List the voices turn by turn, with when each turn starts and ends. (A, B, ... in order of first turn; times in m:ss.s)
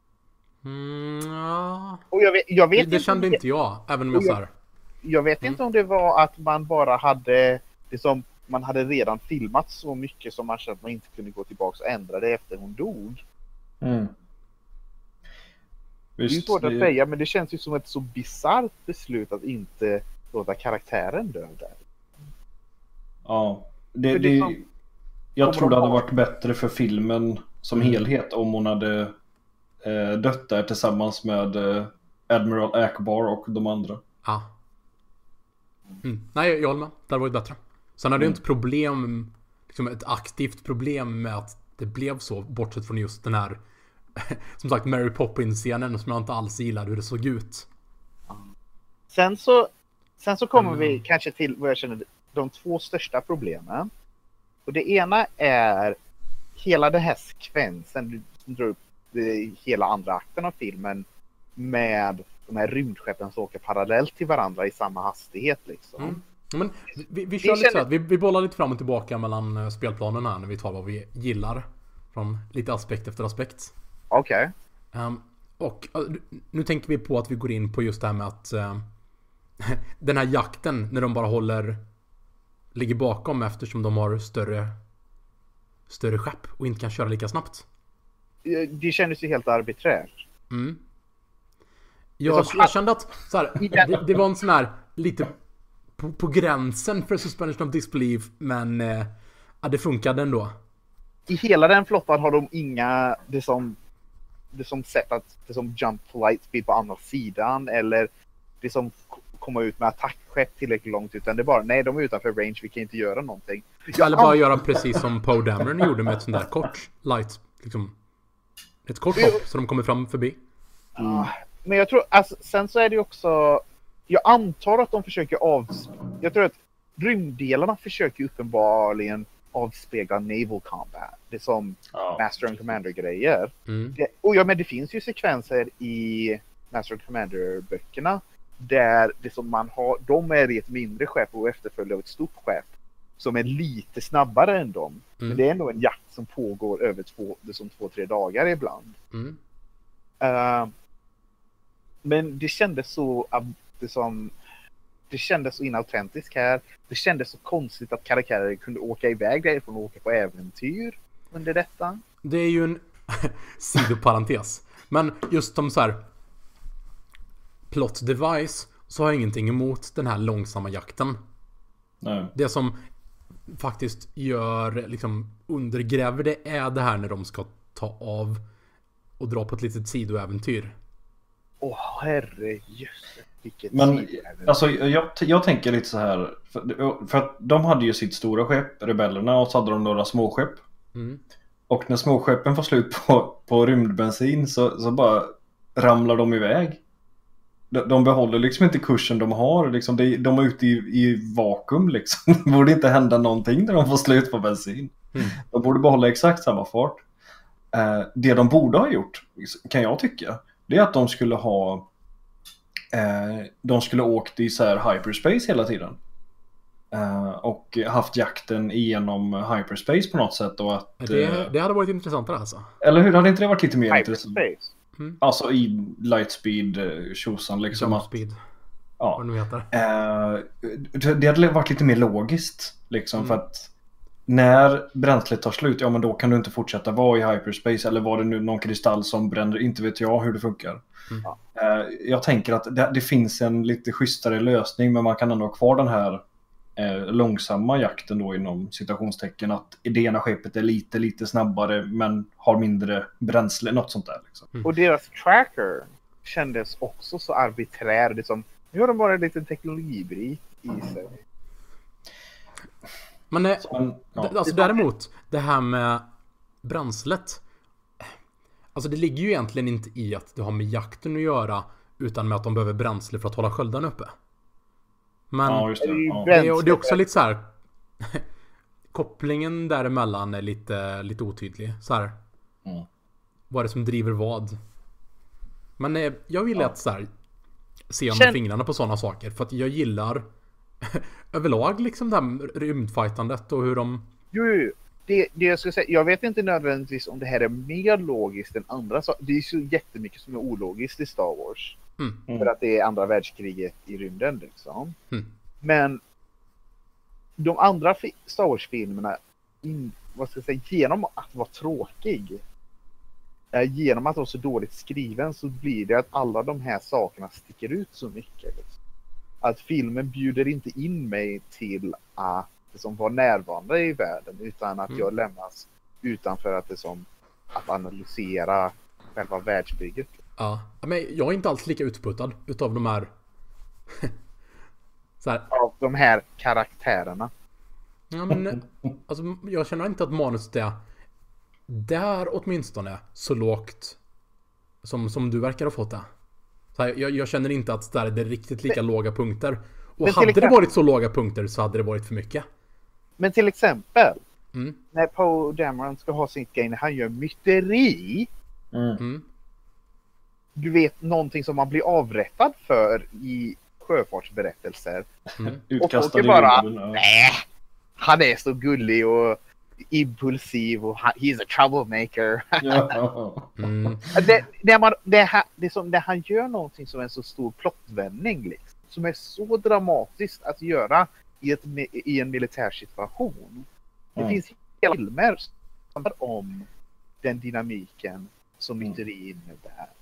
0:00.6-0:02.0 A
0:02.1-0:03.4 B
0:02.8-0:04.5 A
0:04.1-0:04.4 B
0:05.0-0:13.2 B
0:13.8-0:14.1 C
0:16.2-0:16.9 C
0:16.3-0:21.8 B
0:23.3-0:24.6 C
0:24.1-0:24.6 B
0:25.4-0:29.2 C
0:25.4-0:26.0 B
0:29.8-0:34.0 C
0:36.0-0:43.6 A
0:44.2-0:47.7 A
0:49.1-0:53.9 B
0:50.6-0:51.0 A
0:54.7-0:56.0 B
0:56.6-1:01.0 B
1:01.6-1:06.2 B
1:06.0-1:13.7 A
1:07.4-1:07.8 B
1:14.1-1:14.5 B
1:14.9-1:18.8 A
1:19.6-1:21.8 A
1:22.8-1:24.7 A
1:25.9-1:27.6 A
1:28.4-1:30.2 B
1:30.5-1:30.8 A
1:32.2-1:35.3 A
1:32.3-1:32.7 B
1:33.6-1:34.0 B
1:36.0-1:39.1 A
1:39.6-1:40.5 A
1:41.3-1:43.8 B
1:44.5-1:48.1 B
1:48.6-1:54.4 B
1:54.0-1:57.9 A
1:58.9-2:00.4 A
1:59.2-1:59.4 B
2:01.0-2:29.0 B
2:01.0-2:01.3 C
2:11.9-2:12.2 C
2:13.7-2:14.0 A
2:29.1-2:29.4 A
2:30.2-2:30.7 B
2:32.0-2:34.3 B
2:35.1-2:42.0 B
2:42.2-2:46.0 A
2:47.7-2:51.2 A
2:52.0-2:52.3 C
2:52.4-2:52.8 A
2:53.5-2:58.4 A
2:59.2-3:00.7 A
3:01.6-3:04.6 B
3:03.7-3:10.6 C
3:11.0-3:11.2 A
3:11.7-3:16.8 C
3:17.7-3:27.0 C
3:27.7-3:31.9 C
3:32.9-3:36.0 C
3:36.9-3:41.5 C
3:41.0-3:42.7 A
3:42.8-3:44.4 C
3:43.9-3:44.7 B
3:45.2-3:48.1 C
3:47.7-3:48.4 A
3:49.2-3:49.7 A
3:49.7-3:53.7 C
3:54.3-4:00.8 C
4:01.6-4:06.2 C
4:06.8-4:14.5 C
4:14.6-4:21.2 B
4:23.3-4:26.0 A
4:23.7-4:24.4 C
4:24.5-4:24.8 B
4:26.6-4:27.4 A
4:28.8-4:34.1 A
4:35.3-4:35.8 A
4:35.4-4:36.3 C
4:35.8-4:37.0 B
4:36.3-4:37.5 A
4:38.9-4:42.1 A
4:43.5-4:44.6 A
4:45.8-4:47.1 A
4:47.9-4:50.2 A
4:48.1-4:48.4 B
4:50.8-4:54.1 A
4:54.3-5:01.8 B
5:02.4-5:05.0 B
5:05.6-5:06.0 B
5:07.4-5:12.4 B
5:13.5-5:18.7 B
5:19.4-5:30.1 B
5:30.4-5:33.1 A
5:35.2-5:35.5 A
5:35.5-5:37.3 B
5:38.1-5:40.8 A
5:41.7-5:44.0 A
5:44.8-5:46.1 A
5:46.8-5:52.4 A
5:50.0-5:50.6 B
5:53.2-5:54.2 B
5:54.9-5:58.3 B
5:58.7-5:59.0 C
5:59.0-5:59.2 A
6:00.6-6:05.1 B
6:05.4-6:07.0 C
6:05.8-6:07.4 B
6:08.0-6:09.4 B
6:09.9-6:13.0 B
6:12.6-6:14.0 C
6:13.6-6:14.1 A
6:14.1-6:26.7 B
6:27.2-6:29.9 B